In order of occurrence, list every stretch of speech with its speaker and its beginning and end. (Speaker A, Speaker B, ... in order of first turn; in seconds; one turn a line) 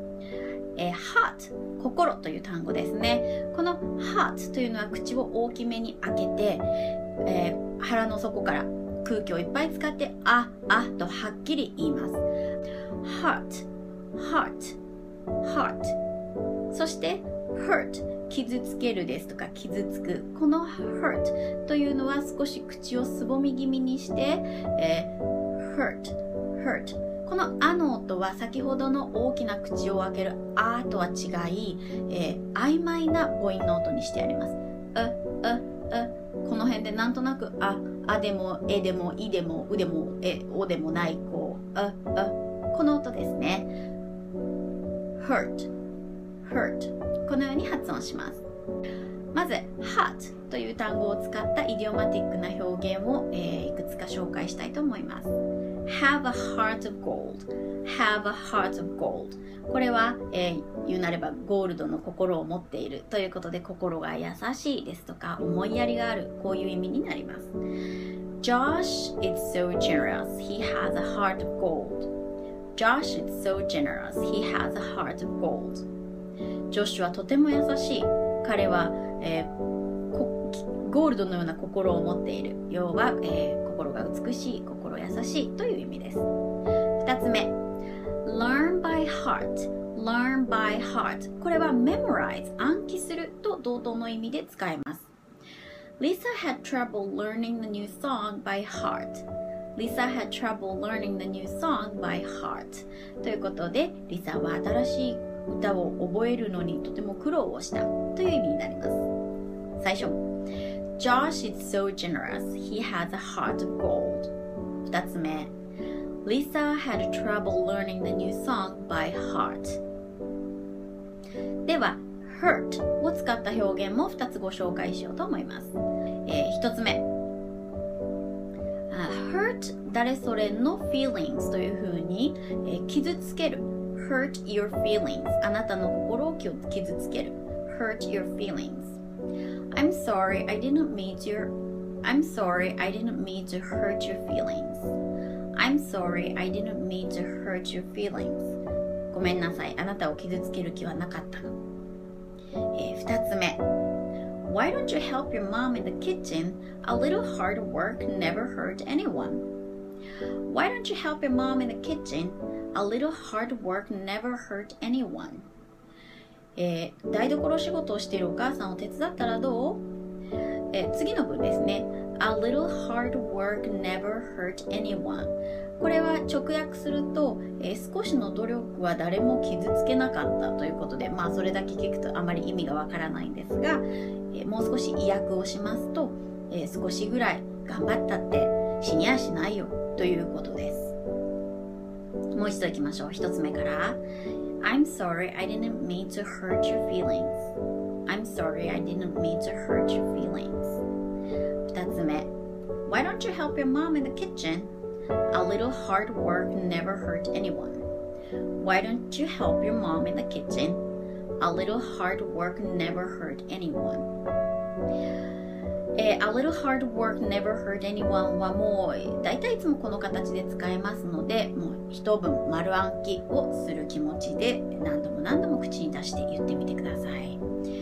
Speaker A: 0.8-6.7
Speaker A: 7.2-12.2
Speaker A: 13.0-14.8
Speaker A: 15.4-15.9
Speaker A: 16.7-43.7
Speaker A: 45.2-45.7
Speaker A: 46.4-48.4
Speaker A: 49.3-67.5
Speaker A: 68.4-72.1
Speaker A: 72.7-75.8
Speaker A: 76.7-79.5
Speaker A: 80.1-86.3
Speaker A: 87.0-87.5
Speaker A: 88.2-95.1
Speaker A: 96.0-109.1
Speaker A: 109.8-110.2
Speaker A: 111.0-114.3
Speaker A: 114.8-115.5
Speaker A: 116.2-119.8
Speaker A: 121.7-125.7
Speaker A: 126.2-127.0
Speaker A: 128.9-139.0
Speaker A: 139.7-144.9
Speaker A: 145.6-148.6
Speaker A: 149.1-151.5
Speaker A: 152.7-153.6
Speaker A: 154.4-159.5
Speaker A: 160.4-165.5
Speaker A: 166.6-169.8
Speaker A: 170.7-190.9
Speaker A: 192.3-194.0
Speaker A: 194.6-197.5
Speaker A: 198.1-200.8
Speaker A: 201.6-202.3
Speaker A: 202.8-204.7
Speaker A: 205.3-207.9
Speaker A: 208.5-210.8
Speaker A: 211.4-214.1
Speaker A: 216.0-227.4